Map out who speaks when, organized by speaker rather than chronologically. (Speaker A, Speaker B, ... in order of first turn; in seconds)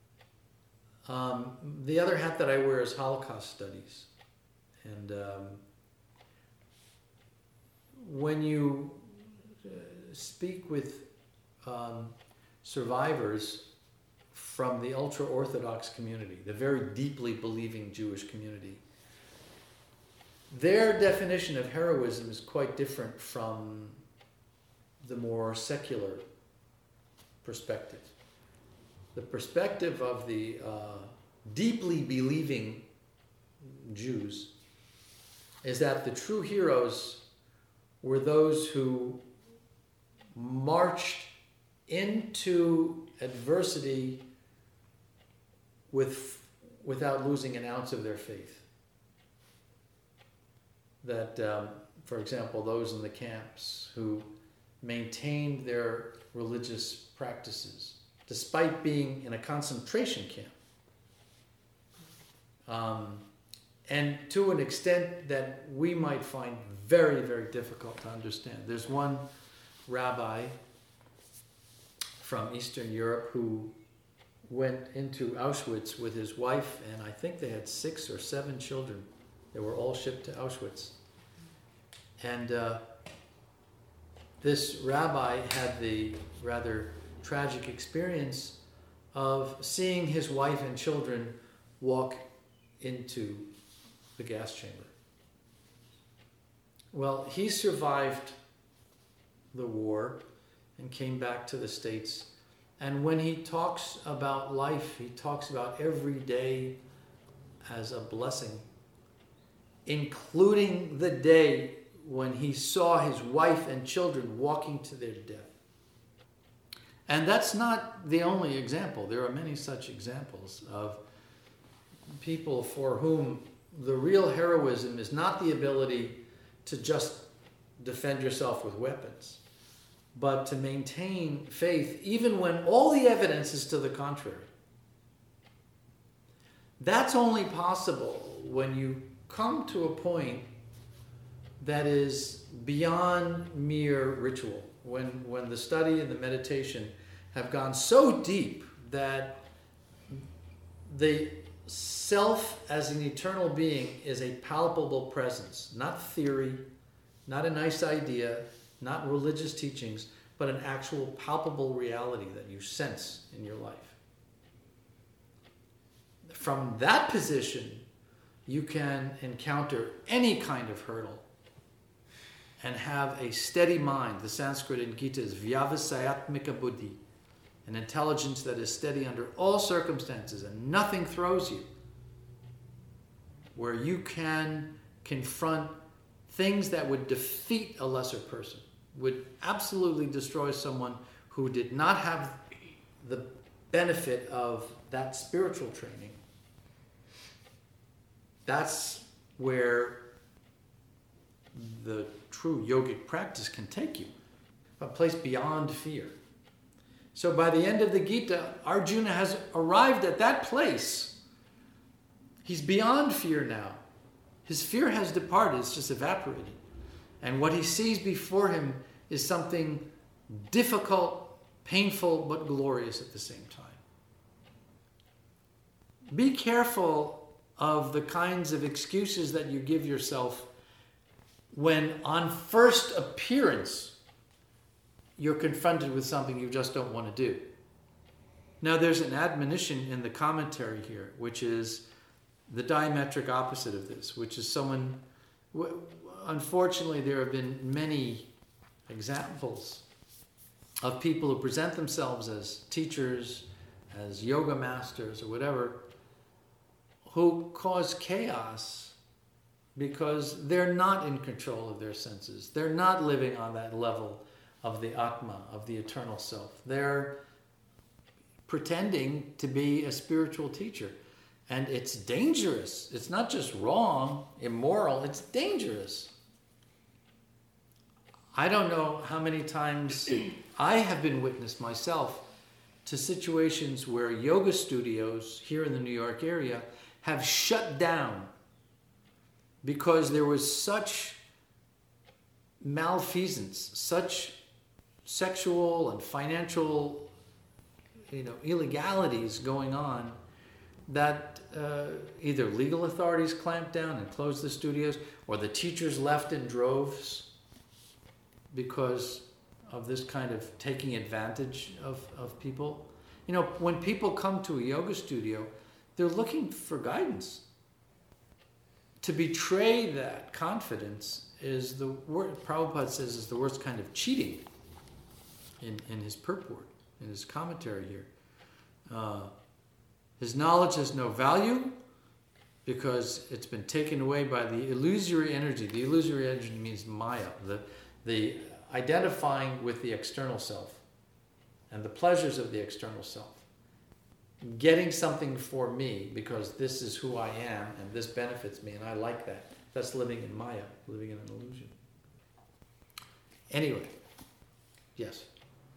Speaker A: 1.1-4.1, 4.8-5.6, 8.0-11.1, 11.6-13.7, 14.3-18.8, 20.5-24.0, 25.0-26.2, 27.4-28.1, 29.1-32.9, 33.6-34.5, 35.6-37.2, 38.0-39.2, 40.4-41.3, 41.9-44.2, 45.9-48.6, 51.0-54.3, 54.8-60.5, 62.7-63.2, 63.9-69.2, 69.9-70.6, 72.2-73.8, 74.5-81.0, 82.2-82.8, 84.4-88.6, 89.1-92.2, 92.8-93.5, 94.2-94.9, 96.9-98.4, 99.5-100.2, 100.8-106.8, 107.6-108.7, 109.9-115.5, 117.1-121.0, 122.1-129.4, 130.1-134.5, 136.8-140.5, 141.6-149.4, 150.9-156.7, 157.3-164.0, 166.3-167.8, 168.5-171.2, 172.6-177.0, 177.7-181.7, 183.6-185.8, 186.3-192.4, 193.0-196.2, 198.4-200.0, 201.5-204.1, 204.8-206.2, 207.2-211.2, 212.4-213.8, 214.4-216.6, 217.2-223.8, 226.1-230.5, 231.5-234.0, 235.2-237.5, 238.6-241.9, 242.5-245.0, 245.5-248.3, 248.9-249.8, 250.8-255.8, 257.1-259.0, 259.8-267.2, 268.5-271.0, 271.5-276.1, 278.3-282.2, 282.9-288.3, 289.6-291.2, 292.6-294.4, 295.1-297.1, 298.1-300.2, 300.9-307.3, 308.5-317.4, 319.0-324.4, 325.6-328.1, 328.9-329.3, 330.2-331.8, 332.6-340.8, 341.7-343.4, 344.4-351.7, 353.5-354.0, 355.0-355.3